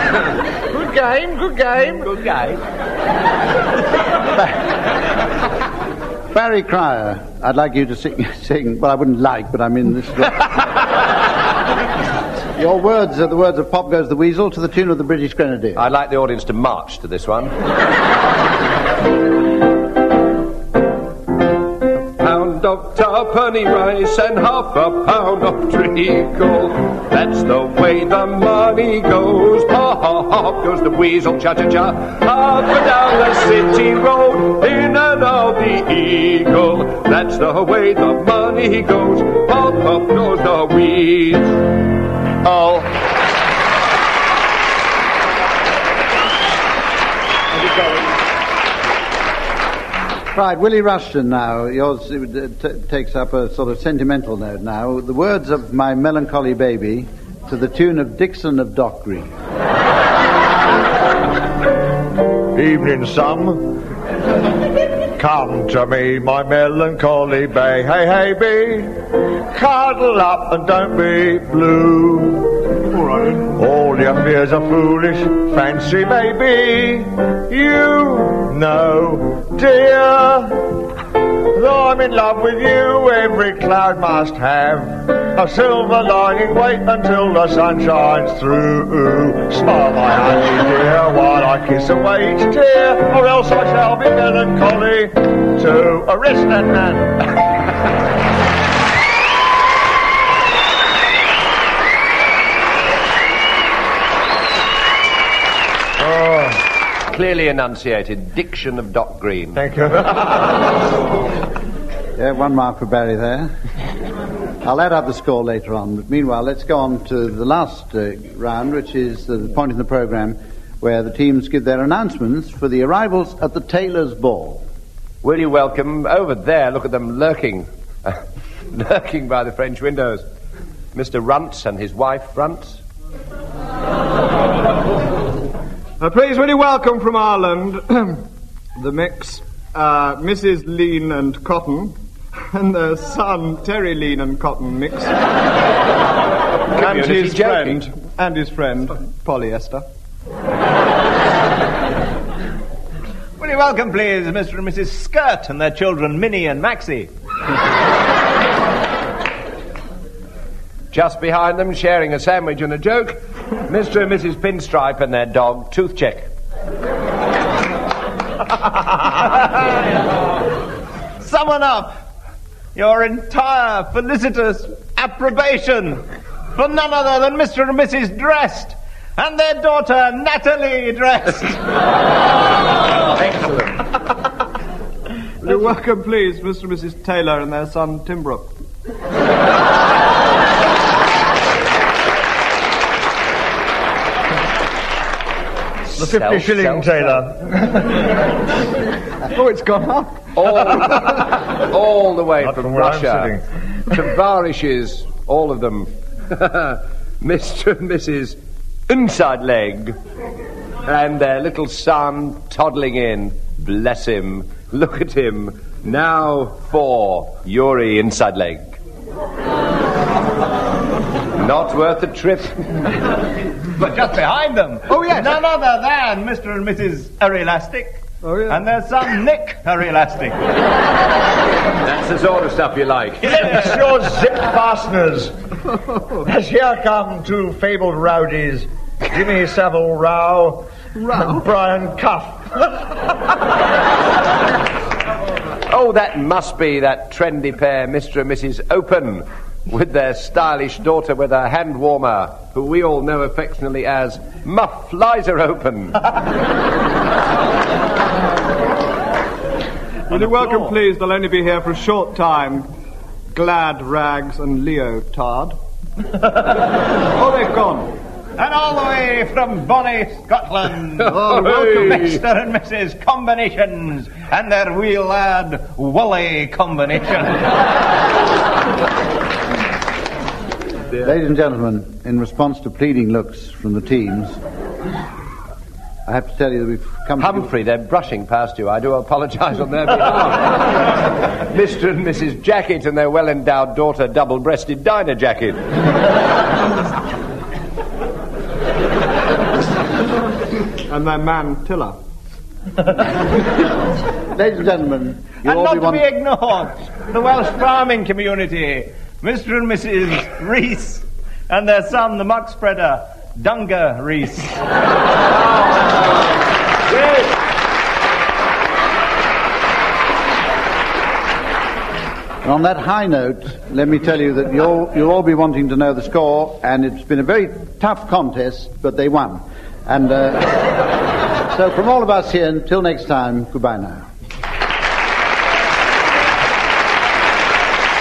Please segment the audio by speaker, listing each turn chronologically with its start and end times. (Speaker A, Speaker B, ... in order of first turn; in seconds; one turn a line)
Speaker A: 0.7-2.2
Speaker B: 6.3-10.6
Speaker B: 12.6-15.8
Speaker C: 15.8-17.5
Speaker C: 22.2-41.7
Speaker C: 42.4-42.9
Speaker B: 50.3-59.3
Speaker A: 62.5-63.8
Speaker A: 65.2-69.0
Speaker A: 69.5-72.5
Speaker D: 72.9-73.4
Speaker A: 73.4-80.7
Speaker A: 81.5-97.3
Speaker A: 106.0-106.6
Speaker C: 107.1-109.6
Speaker A: 109.5-110.5
Speaker B: 112.2-113.5
Speaker B: 114.6-124.6
Speaker C: 125.2-128.2
Speaker C: 128.7-130.2
Speaker C: 130.9-132.8
Speaker D: 136.0-145.2
Speaker C: 146.7-147.9
Speaker D: 146.7-149.8
Speaker E: 153.4-157.1
Speaker C: 160.9-166.3
Speaker E: 171.2-172.0
Speaker E: 172.7-181.6
Speaker E: 183.3-183.6
Speaker D: 185.4-188.5
Speaker C: 195.8-197.2
Speaker A: 195.9-197.9
Speaker D: 199.3-200.3
Speaker C: 200.4-203.4
Speaker A: 202.4-203.4
Speaker C: 203.9-208.4
Speaker C: 208.9-210.0
Speaker C: 210.8-218.8
Speaker C: 221.3-222.8
Speaker E: 223.7-230.5
Speaker D: 224.9-225.3
Speaker D: 228.2-228.6
Speaker C: 231.8-233.8
Speaker A: 233.3-235.3
Speaker A: 236.2-242.7
Speaker D: 241.0-241.4
Speaker C: 245.7-256.1
Speaker D: 260.1-262.7
Speaker E: 260.3-260.7
Speaker D: 263.3-265.6
Speaker D: 267.1-267.9
Speaker E: 268.4-277.6
Speaker C: 271.1-272.1
Speaker D: 271.1-271.5
Speaker B: 281.0-284.4
Speaker B: 286.1-287.5
Speaker C: 287.2-290.9
Speaker C: 291.5-295.6
Speaker D: 300.9-302.0
Speaker B: 304.3-306.0
Speaker E: 305.4-314.6
Speaker B: 322.4-330.9
Speaker B: 331.5-334.1